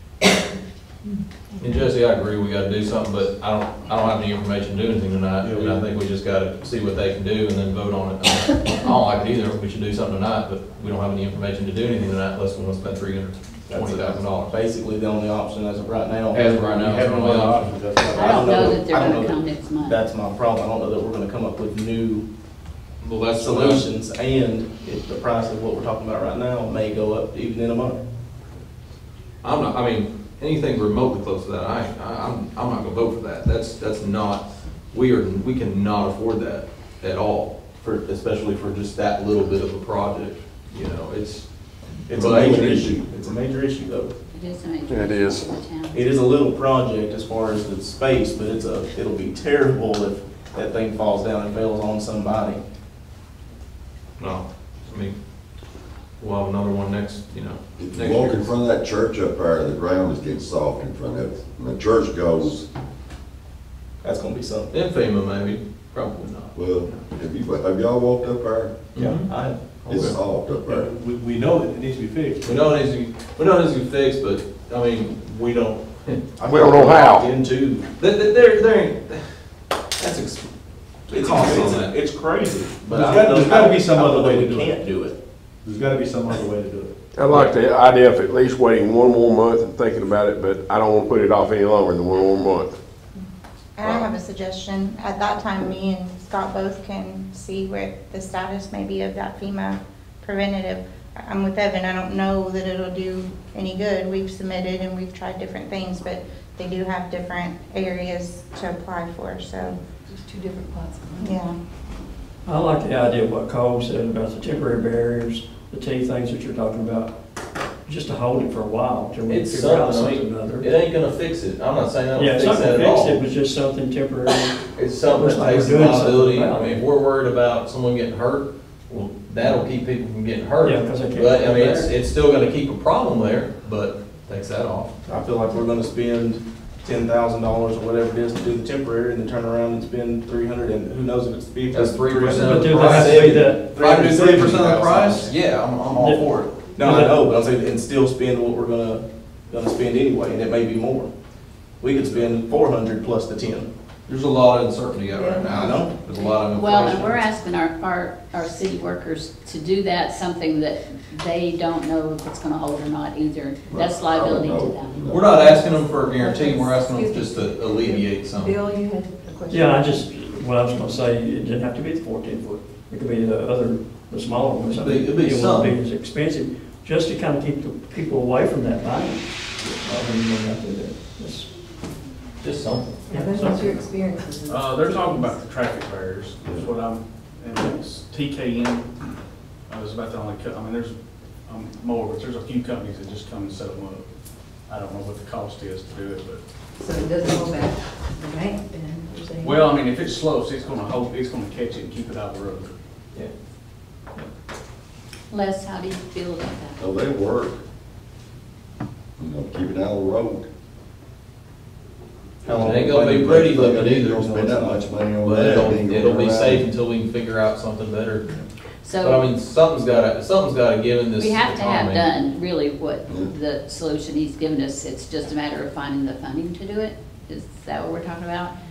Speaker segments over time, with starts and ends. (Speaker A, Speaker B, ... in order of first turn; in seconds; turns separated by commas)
Speaker A: 1.1-1.6, Speaker B: 1.6-14.5, Speaker C: 5.4-5.9, Speaker D: 13.7-16.7, Speaker B: 16.3-17.8, Speaker C: 16.5-18.8, Speaker D: 18.1-22.3, Speaker E: 18.1-20.0, Speaker B: 23.0-23.9, Speaker D: 23.3-28.0, Speaker B: 29.4-43.0, Speaker D: 42.1-44.2, Speaker F: 42.1-43.1, Speaker E: 44.3-46.0, Speaker G: 44.9-45.5, Speaker D: 45.9-52.6, Speaker B: 54.2-55.2, Speaker B: 56.2-58.5, Speaker F: 57.8-62.6, Speaker D: 64.0-64.7, Speaker B: 64.7-67.0, Speaker F: 66.5-68.8, Speaker B: 68.9-70.2, Speaker D: 69.2-69.6, Speaker F: 69.9-70.9, Speaker C: 70.0-72.5, Speaker B: 72.4-76.4, Speaker D: 76.4-77.9, Speaker G: 76.5-77.3, Speaker F: 76.5-77.0, Speaker B: 78.0-79.4, Speaker B: 80.0-82.0, Speaker D: 81.1-85.2, Speaker C: 82.9-84.8, Speaker C: 85.6-87.0, Speaker G: 87.1-92.8, Speaker H: 93.8-109.8, Speaker A: 109.6-111.4, Speaker H: 111.2-111.6, Speaker I: 112.4-120.7, Speaker B: 119.3-123.2, Speaker I: 122.2-126.9, Speaker B: 124.7-135.0, Speaker I: 129.4-129.7, Speaker I: 130.6-131.9, Speaker D: 135.1-143.4, Speaker B: 141.7-146.5, Speaker C: 142.2-145.3, Speaker I: 142.3-143.7, Speaker D: 144.7-145.2, Speaker I: 145.8-147.2, Speaker D: 146.8-151.1, Speaker D: 151.8-153.7, Speaker B: 154.1-157.3, Speaker A: 155.1-156.4, Speaker D: 155.5-155.9, Speaker E: 156.5-165.1, Speaker F: 163.7-165.5, Speaker B: 165.1-168.6, Speaker A: 165.3-170.1, Speaker I: 169.5-181.6, Speaker B: 174.7-175.8, Speaker B: 179.6-181.0, Speaker B: 182.4-183.1, Speaker A: 183.1-185.4, Speaker I: 183.1-184.2, Speaker J: 184.5-189.1, Speaker F: 186.4-186.7, Speaker J: 189.7-196.4, Speaker A: 196.8-199.7, Speaker J: 199.4-202.8, Speaker E: 205.3-206.8, Speaker F: 206.8-207.6, Speaker F: 209.2-210.5, Speaker D: 212.4-215.9, Speaker B: 212.5-214.4, Speaker F: 212.6-216.6, Speaker B: 215.2-218.2, Speaker E: 218.8-219.2, Speaker B: 219.0-222.1, Speaker E: 221.2-228.6